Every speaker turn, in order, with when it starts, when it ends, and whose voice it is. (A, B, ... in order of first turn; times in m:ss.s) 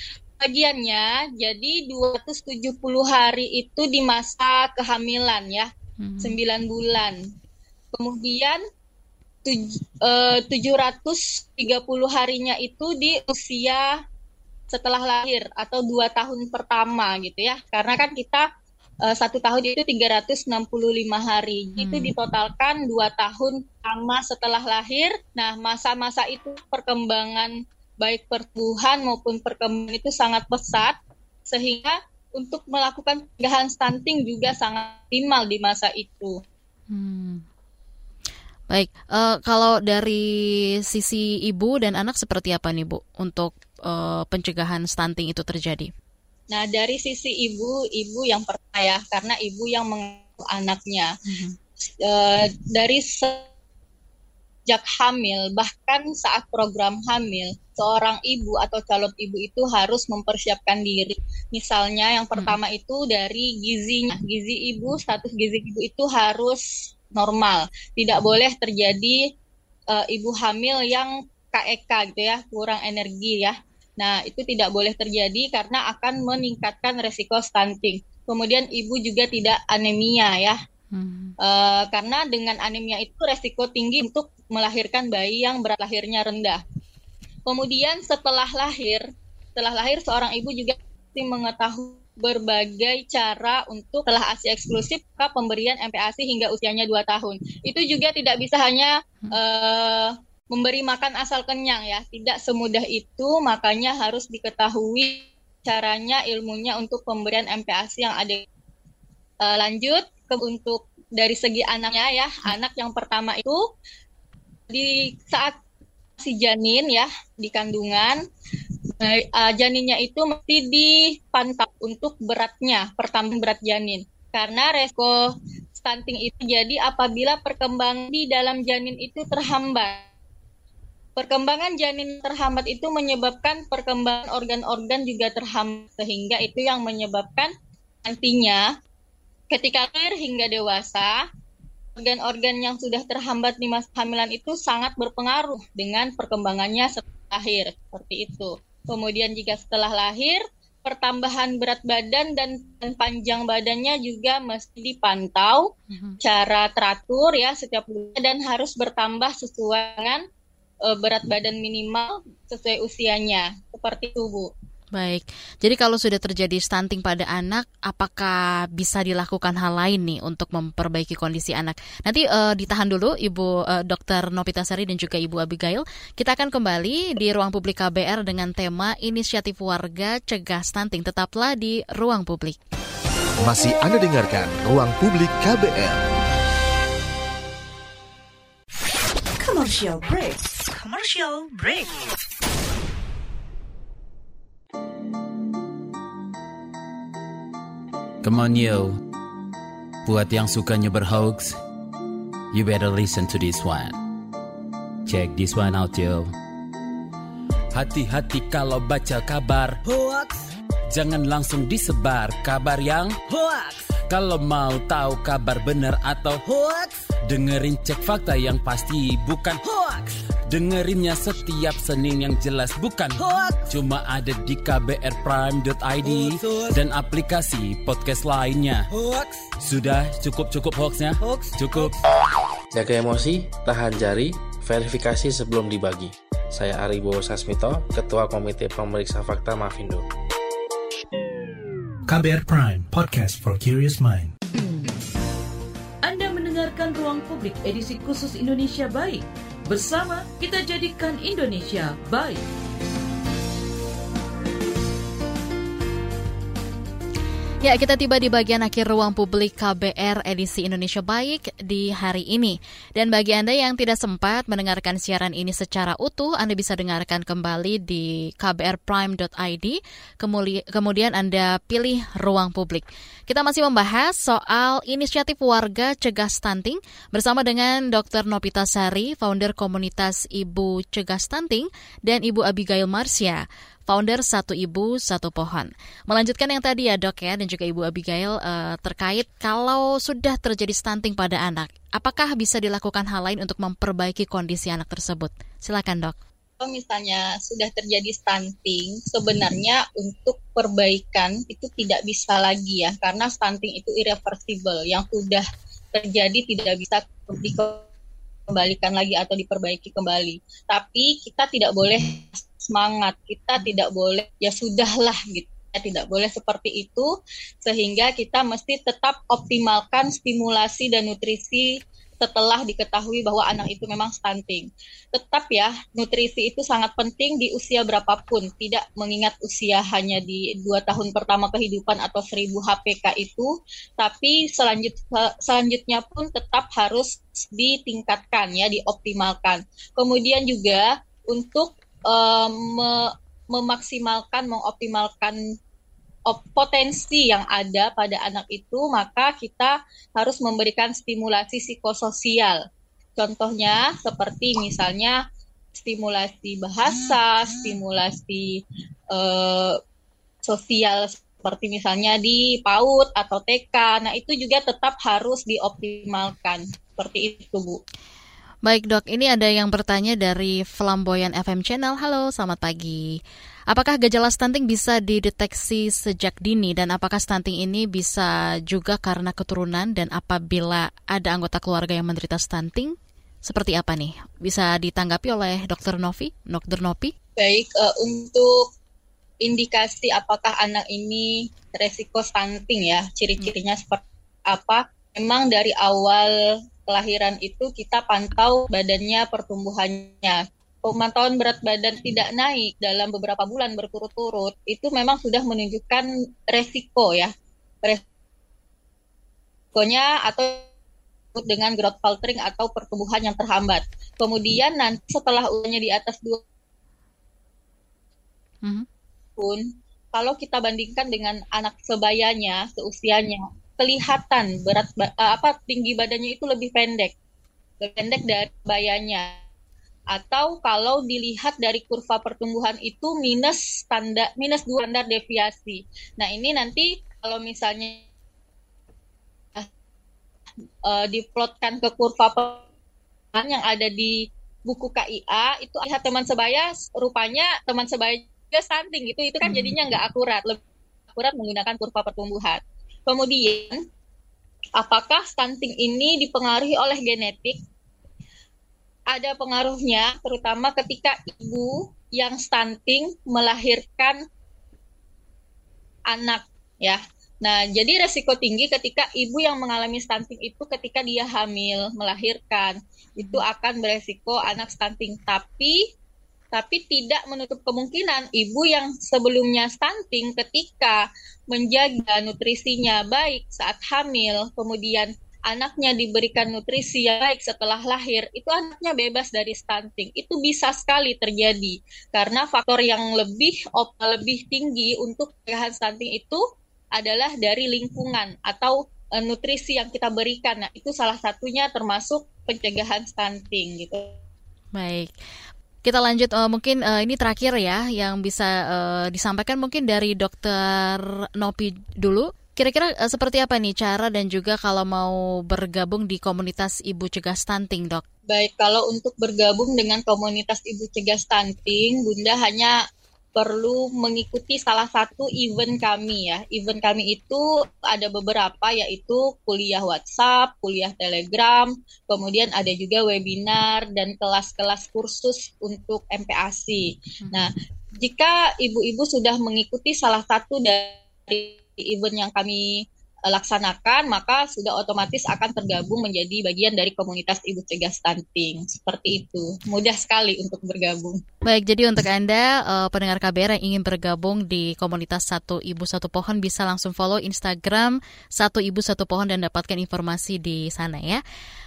0:00.4-0:05.7 A
0:06.0-0:06.4 B
0:06.2-0:07.2 A
0:07.9-0:08.6 A
0:09.4-0:13.9 A
0:14.7-0:18.4 A
0:19.0-0:30.9 A
0:21.8-0:22.1 B
0:31.5-0:36.4 A
0:36.9-0:37.4 B
0:38.7-0:45.9 B
0:46.5-0:51.1 A
0:51.3-0:51.6 B
0:52.0-0:53.4 A
0:54.7-1:06.6 A
1:07.1-1:09.2 A
1:09.9-1:20.6 A
1:20.9-1:21.4 B
1:21.4-1:26.6 A
1:27.5-1:29.0 A
1:29.6-1:48.4 A
1:49.4-1:53.6 A
1:54.7-1:55.6 A
1:56.2-1:58.2 A
1:59.0-2:05.1 A
2:05.8-2:10.0 A
2:11.2-2:17.5 A
2:18.1-2:18.6 A
2:19.5-2:21.2 A
2:22.0-2:40.2 A
2:35.9-2:36.2 B
2:40.9-2:44.5 A
2:45.0-3:02.6 B
3:03.4-3:06.1 C
3:09.4-3:12.0 D
3:18.2-3:19.0 E
3:20.0-3:21.5 E
3:22.5-3:24.0 E
3:25.1-3:26.3 E
3:27.7-3:30.2 E
3:30.9-3:33.2 E
3:34.1-3:36.7 E
3:37.3-3:48.9 E
3:49.6-3:52.0 E
3:52.7-4:00.0 F
4:02.1-4:04.3 G
4:06.0-4:12.4 H
4:17.6-4:56.2 B
4:56.6-5:07.8 A
5:08.5-5:17.1 A
5:17.6-5:21.7 A
5:22.2-5:33.5 A
5:34.0-5:45.4 A
5:46.3-5:52.6 A
5:53.2-5:55.2 A
5:55.8-5:58.6 A
5:59.1-5:59.8 A
6:00.5-6:07.8 A
6:08.6-6:13.2 B
6:13.7-6:27.1 B
6:27.4-6:28.7 A
6:29.4-6:36.3 A
6:36.9-6:47.3 A
6:49.8-6:50.6 A
6:51.4-6:56.4 A
6:59.4-7:07.1 A
7:07.8-7:09.3 A
7:10.1-7:18.0 A
7:20.9-7:22.6 A
7:23.4-7:30.6 A
7:29.4-7:29.8 B
7:31.1-7:33.8 A
7:34.8-7:37.6 A
7:39.1-7:44.2 A
7:46.1-7:55.8 A
7:53.2-7:53.4 B
7:56.5-8:16.4 A
8:17.0-8:24.1 A
8:24.8-8:25.1 B
8:25.8-8:38.0 B
8:38.3-8:42.7 A
8:43.4-9:02.6 A
9:03.3-9:11.2 A
9:11.4-9:21.2 B